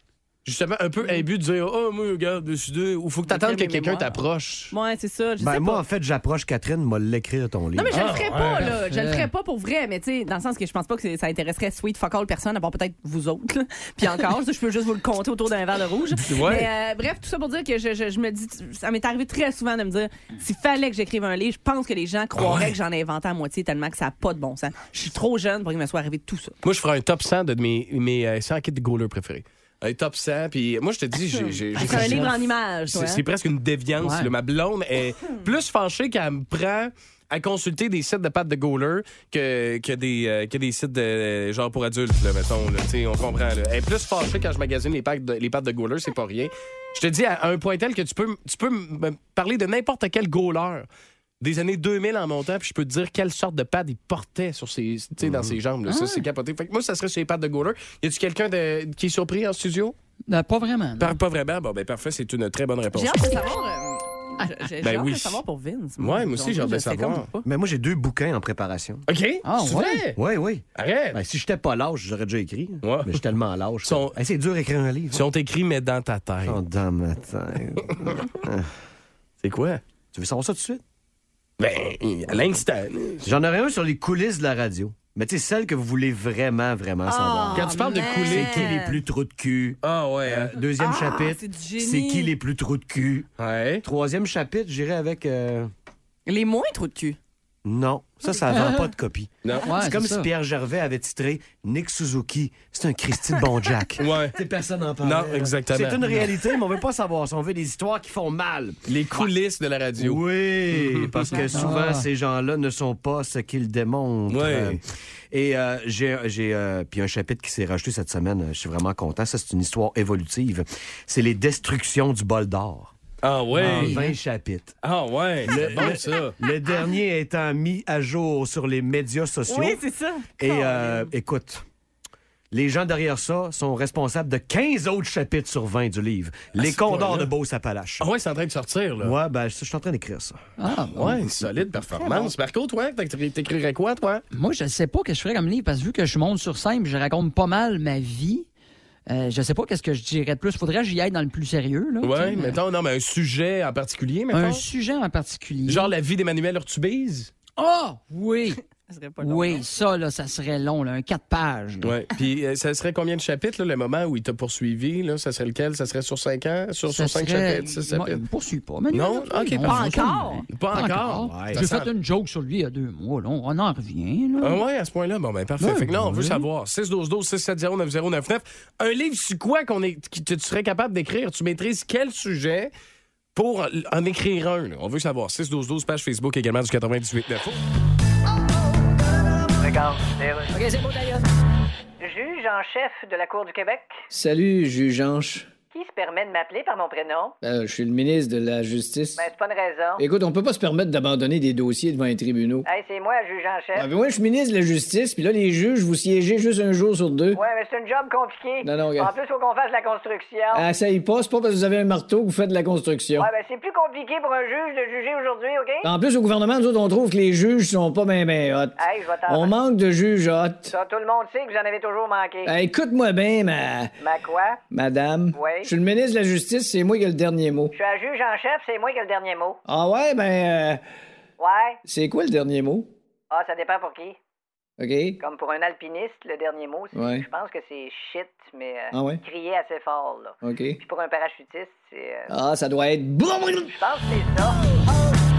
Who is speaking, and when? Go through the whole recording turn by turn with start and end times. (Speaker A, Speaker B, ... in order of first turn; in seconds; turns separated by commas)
Speaker A: 0.4-4.7, Speaker B: 3.2-4.2, Speaker B: 4.7-5.8, Speaker C: 5.4-8.0, Speaker B: 7.7-26.5, Speaker A: 7.9-8.8, Speaker D: 8.6-9.3, Speaker A: 16.1-16.7, Speaker A: 22.4-22.7, Speaker A: 26.6-50.9, Speaker B: 31.3-33.2, Speaker D: 31.8-32.3, Speaker D: 34.0-34.3, Speaker A: 51.4-59.9, Speaker C: 55.2-55.6, Speaker D: 55.9-56.2, Speaker D: 60.3-61.1, Speaker A: 61.0-63.5, Speaker B: 62.9-67.4, Speaker A: 64.8-65.4, Speaker A: 66.0-67.3, Speaker C: 67.4-69.0, Speaker A: 69.1-70.2, Speaker D: 69.4-70.0, Speaker C: 70.2-75.2, Speaker A: 70.8-71.2, Speaker A: 72.8-73.2, Speaker A: 73.8-74.2, Speaker A: 75.1-76.6, Speaker C: 76.4-78.7, Speaker A: 79.4-79.8, Speaker C: 80.1-80.8, Speaker A: 81.6-83.3, Speaker C: 83.2-93.3, Speaker B: 87.0-89.0, Speaker A: 87.5-88.8, Speaker A: 89.8-90.6, Speaker B: 90.8-92.3, Speaker A: 93.4-93.8, Speaker C: 93.8-95.7, Speaker B: 96.2-97.2, Speaker C: 97.6-109.3, Speaker D: 98.5-98.8, Speaker D: 99.6-100.3, Speaker A: 104.0-104.4, Speaker A: 105.0-106.0, Speaker A: 108.9-111.4, Speaker C: 110.0-122.9, Speaker D: 111.5-112.1, Speaker A: 114.3-114.8, Speaker A: 123.2-124.0, Speaker D: 123.6-124.1, Speaker C: 123.6-124.8, Speaker A: 124.8-126.3, Speaker C: 125.4-129.8, Speaker B: 129.5-131.1, Speaker C: 130.4-131.6, Speaker C: 132.5-138.1, Speaker A: 136.5-137.3, Speaker A: 138.0-139.1, Speaker C: 139.0-140.4, Speaker D: 140.6-141.2, Speaker A: 140.9-144.2, Speaker C: 141.9-142.3, Speaker D: 144.3-148.5, Speaker D: 149.1-152.6, Speaker A: 152.0-154.6, Speaker D: 154.3-155.9, Speaker A: 155.7-157.3, Speaker D: 157.6-158.6, Speaker B: 158.9-159.6, Speaker D: 159.2-161.9, Speaker A: 161.8-168.2, Speaker D: 166.9-174.6, Speaker A: 168.9-171.9, Speaker B: 169.6-170.5, Speaker C: 171.2-171.6, Speaker A: 174.4-182.7, Speaker D: 175.6-176.4, Speaker A: 183.3-187.6, Speaker E: 189.6-191.2, Speaker E: 192.0-193.9, Speaker F: 194.1-195.5, Speaker E: 195.7-197.3, Speaker F: 197.4-199.2, Speaker E: 199.2-200.0, Speaker F: 200.0-202.7, Speaker E: 202.6-203.9, Speaker F: 203.8-207.4, Speaker E: 207.3-210.7, Speaker F: 208.6-209.1, Speaker F: 210.5-213.3, Speaker E: 213.2-215.9, Speaker F: 215.8-220.7, Speaker E: 218.8-219.6, Speaker E: 220.7-222.5, Speaker F: 222.4-223.9, Speaker E: 224.0-224.6, Speaker F: 224.7-227.7, Speaker E: 225.3-225.7, Speaker E: 227.7-229.6, Speaker F: 229.7-230.8, Speaker E: 231.4-231.8, Speaker F: 231.8-232.9, Speaker E: 233.3-234.2, Speaker F: 234.8-235.2, Speaker E: 235.2-242.3, Speaker F: 236.9-237.2, Speaker F: 238.9-239.2, Speaker F: 240.4-240.8, Speaker F: 242.3-243.8, Speaker E: 243.7-244.8